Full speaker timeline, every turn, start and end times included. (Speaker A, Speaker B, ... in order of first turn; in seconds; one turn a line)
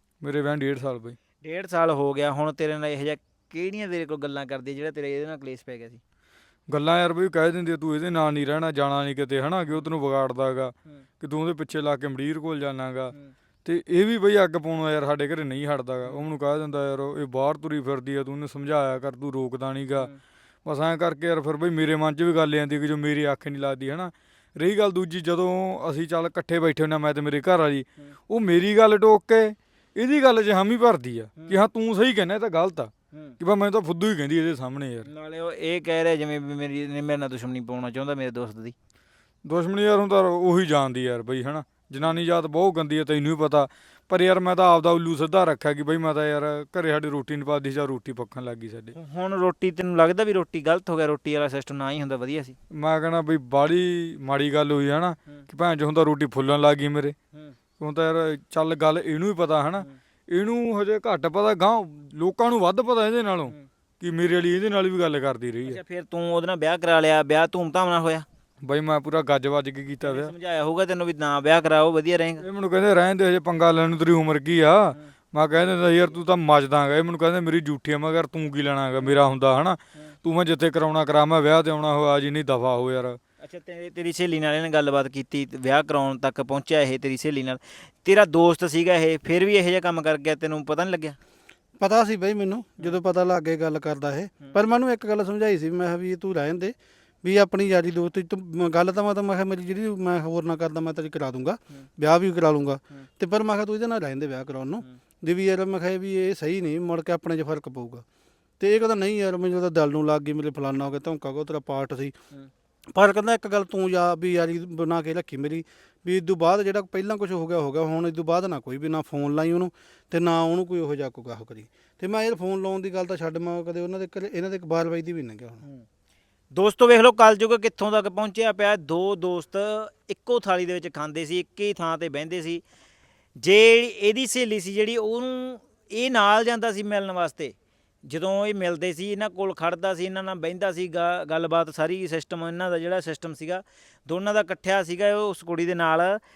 Speaker A: 0.2-1.2
Speaker B: 1.4-6.0
Speaker A: 6.7-13.1
Speaker A: 13.7-20.1
Speaker A: 20.7-35.1
Speaker B: 33.1-33.4
Speaker B: 35.1-38.8
Speaker A: 39.5-49.0
Speaker B: 49.0-52.6
Speaker A: 52.7-57.2
Speaker A: 57.8-65.8
Speaker B: 65.6-68.3
Speaker A: 68.6-70.3
Speaker B: 70.0-72.4
Speaker A: 72.4-83.2
Speaker B: 83.4-91.2
Speaker C: 91.8-108.0
Speaker C: 108.6-112.2
Speaker C: 113.0-125.6
Speaker B: 126.5-132.6
Speaker B: 133.4-146.2